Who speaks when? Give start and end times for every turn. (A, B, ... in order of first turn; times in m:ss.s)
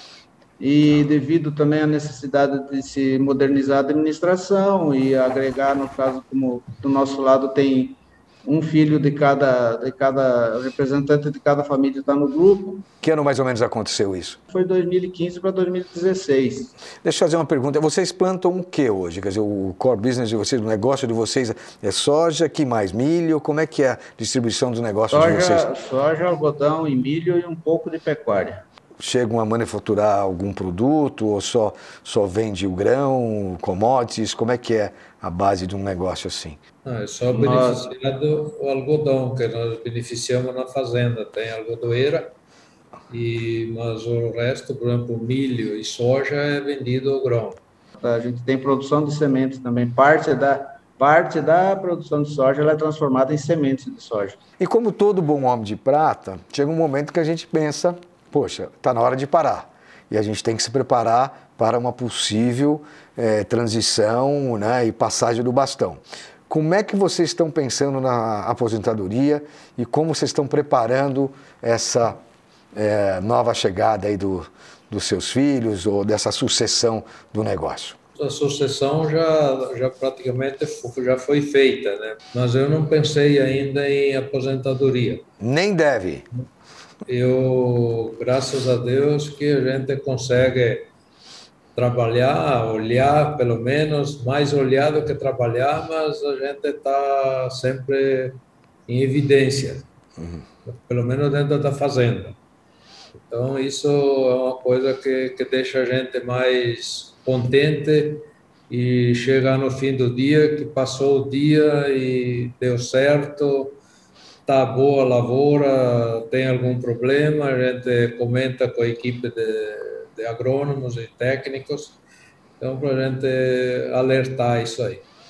0:00.6-0:12.8 A
0:13.0-0:14.4 B
0:14.5-0:16.7 A
0:17.0-0:25.6 B
0:25.1-0:28.6 A
0:29.0-0:36.6 B
0:36.8-0:42.3 C
0:37.3-0:37.9 A
0:43.1-0:47.6 C
0:48.0-0:54.4 A
0:54.6-1:12.2 B
1:12.7-1:18.0 B
1:18.2-1:25.2 C
1:25.4-1:26.2 B
1:27.1-1:30.8 C
1:31.7-1:39.8 C
1:40.6-1:42.4 C
1:43.1-1:53.8 C
1:54.4-2:02.0 C
2:02.6-2:05.0 C